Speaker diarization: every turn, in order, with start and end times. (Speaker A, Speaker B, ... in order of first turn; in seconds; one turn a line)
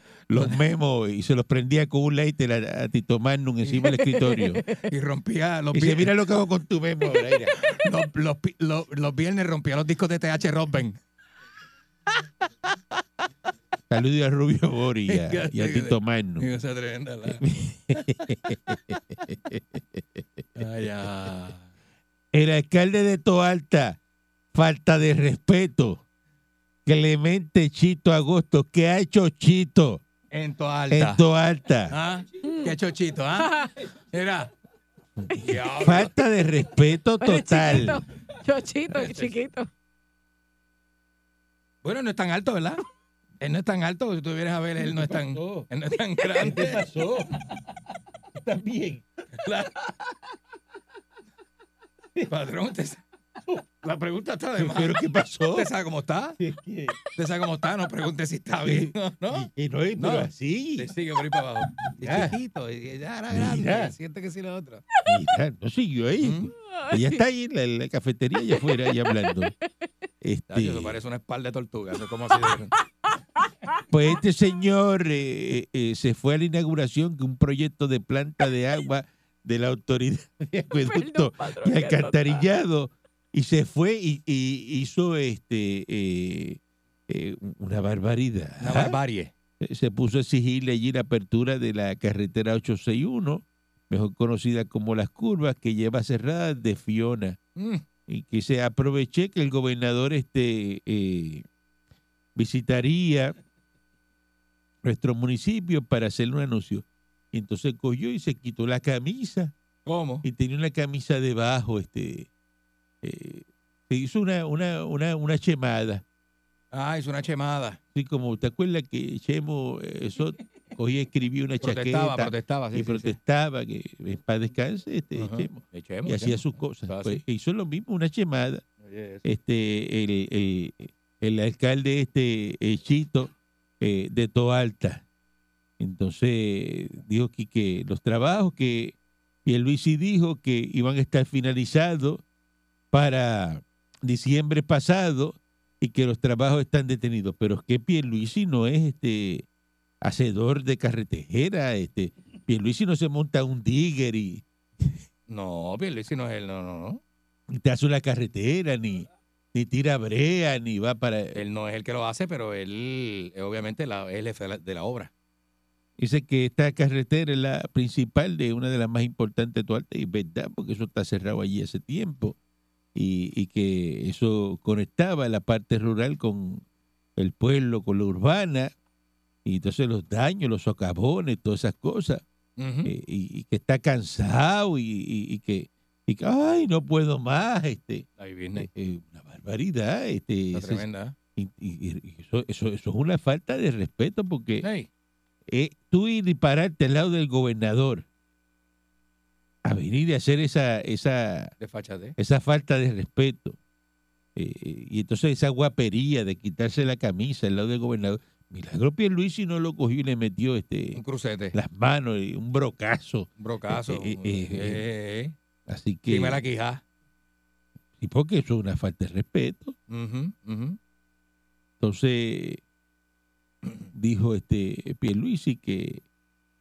Speaker A: 0.3-4.6
Speaker B: 4.0-4.9
Speaker C: 4.8-6.1
Speaker A: 5.7-7.6
Speaker C: 7.6-11.0
Speaker A: 13.9-16.5
Speaker C: 15.1-17.4
Speaker A: 17.4-20.2
Speaker C: 20.6-21.6
Speaker A: 22.3-24.0
Speaker A: 24.5-26.0
Speaker A: 26.9-30.0
Speaker C: 30.3-31.2
Speaker A: 30.9-32.0
Speaker C: 31.9-33.5
Speaker B: 32.4-32.7
Speaker B: 33.4-33.7
Speaker C: 34.1-34.5
Speaker A: 35.2-38.0
Speaker C: 35.4-36.1
Speaker B: 37.2-39.7
Speaker C: 38.9-39.3
Speaker C: 41.8-42.8
Speaker C: 43.4-46.8
Speaker A: 44.8-45.7
Speaker A: 46.4-47.4
Speaker A: 48.4-49.0
Speaker C: 49.4-49.9
Speaker C: 52.3-53.0
Speaker C: 53.8-56.4
Speaker A: 54.6-55.7
Speaker A: 56.4-57.0
Speaker C: 57.1-64.8
Speaker A: 58.6-60.9
Speaker A: 62.0-62.4
Speaker A: 63.3-64.0
Speaker A: 65.0-69.5
Speaker C: 66.2-66.5
Speaker B: 66.7-67.2
Speaker B: 68.6-69.6
Speaker A: 70.2-71.0
Speaker C: 70.5-72.7
Speaker B: 73.1-73.8
Speaker A: 73.9-89.0
Speaker B: 80.7-82.4
Speaker C: 88.6-89.3
Speaker A: 89.6-97.4
Speaker C: 97.6-97.8
Speaker A: 98.1-101.5
Speaker A: 102.3-103.3
Speaker A: 104.8-109.5
Speaker C: 109.9-110.2
Speaker A: 110.2-112.3
Speaker A: 113.0-116.0
Speaker C: 116.7-117.8
Speaker A: 118.0-128.6
Speaker C: 121.6-123.2
Speaker C: 125.2-127.2
Speaker C: 128.8-129.2
Speaker A: 129.2-135.0
Speaker A: 135.8-142.2
Speaker A: 142.9-149.4
Speaker A: 150.0-155.0
Speaker C: 155.3-157.0
Speaker A: 157.5-161.4
Speaker C: 161.3-165.1
Speaker A: 166.0-172.4
Speaker A: 172.9-176.6
Speaker A: 177.2-178.7
Speaker A: 179.4-182.2
Speaker C: 182.6-182.9
Speaker A: 182.8-190.8
Speaker C: 188.2-188.7
Speaker C: 190.5-191.2
Speaker A: 191.4-194.7
Speaker C: 194.6-194.9
Speaker A: 195.5-198.1
Speaker A: 199.7-201.5
Speaker C: 201.6-202.2
Speaker A: 202.2-203.6
Speaker A: 204.4-211.0
Speaker C: 210.9-211.6
Speaker A: 211.5-214.8
Speaker C: 213.4-215.3
Speaker A: 215.7-216.4
Speaker C: 216.1-216.8
Speaker A: 218.0-219.8
Speaker C: 219.9-220.8
Speaker A: 221.8-222.6
Speaker A: 223.9-226.0